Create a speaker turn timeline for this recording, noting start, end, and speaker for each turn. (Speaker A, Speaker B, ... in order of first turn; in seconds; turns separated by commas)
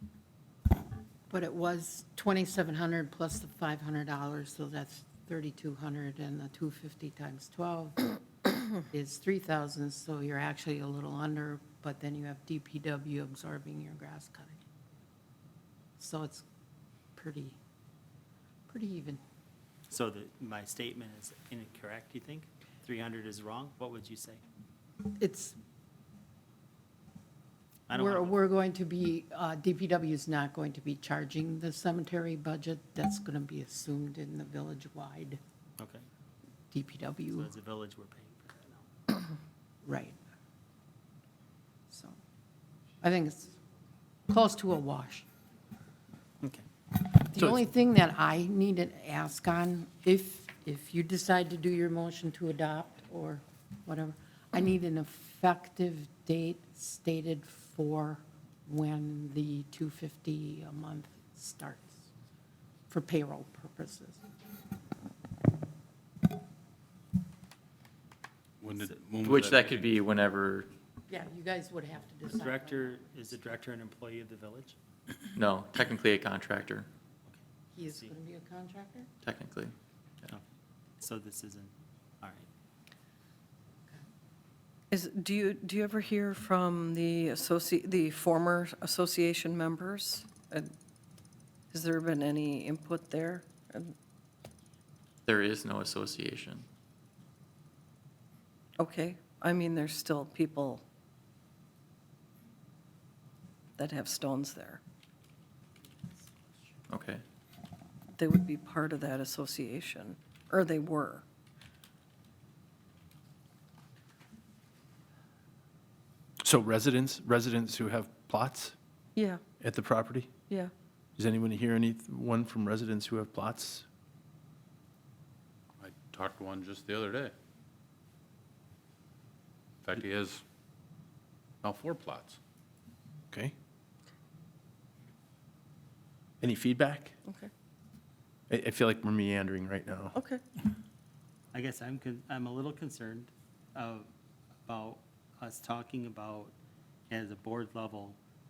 Speaker A: 1.3-14.6, Speaker A: 16.0-16.4, Speaker A: 17.1-17.6, Speaker A: 18.7-19.2, Speaker B: 19.9-24.4, Speaker A: 25.2-25.6, Speaker B: 27.9-28.4, Speaker A: 27.9-35.4, Speaker B: 35.8-36.0, Speaker A: 36.7-37.5, Speaker B: 37.3-38.8, Speaker A: 39.8-40.1, Speaker A: 41.9-42.1, Speaker A: 43.0-43.5, Speaker A: 44.3-45.2, Speaker A: 47.0-62.0, Speaker A: 62.9-64.2, Speaker C: 68.6-69.9, Speaker D: 69.2-70.7, Speaker A: 71.1-73.1, Speaker B: 72.3-74.8, Speaker D: 75.3-76.9, Speaker B: 77.2-78.1, Speaker A: 77.7-79.1, Speaker D: 79.2-80.3, Speaker B: 81.0-82.5, Speaker E: 84.9-90.7, Speaker E: 91.7-93.9, Speaker D: 95.2-96.6, Speaker E: 98.8-100.8, Speaker E: 103.8-104.8, Speaker D: 106.9-107.2, Speaker E: 108.2-111.2, Speaker F: 116.4-118.7, Speaker E: 119.2-119.4, Speaker F: 119.6-120.4, Speaker F: 121.2-123.8, Speaker C: 125.8-127.3, Speaker C: 129.8-130.4, Speaker C: 131.6-132.4, Speaker F: 136.4-137.1, Speaker E: 137.2-137.5, Speaker F: 138.5-140.2, Speaker E: 140.1-140.4, Speaker B: 141.5-144.1, Speaker B: 144.7-146.5, Speaker B: 147.1-148.2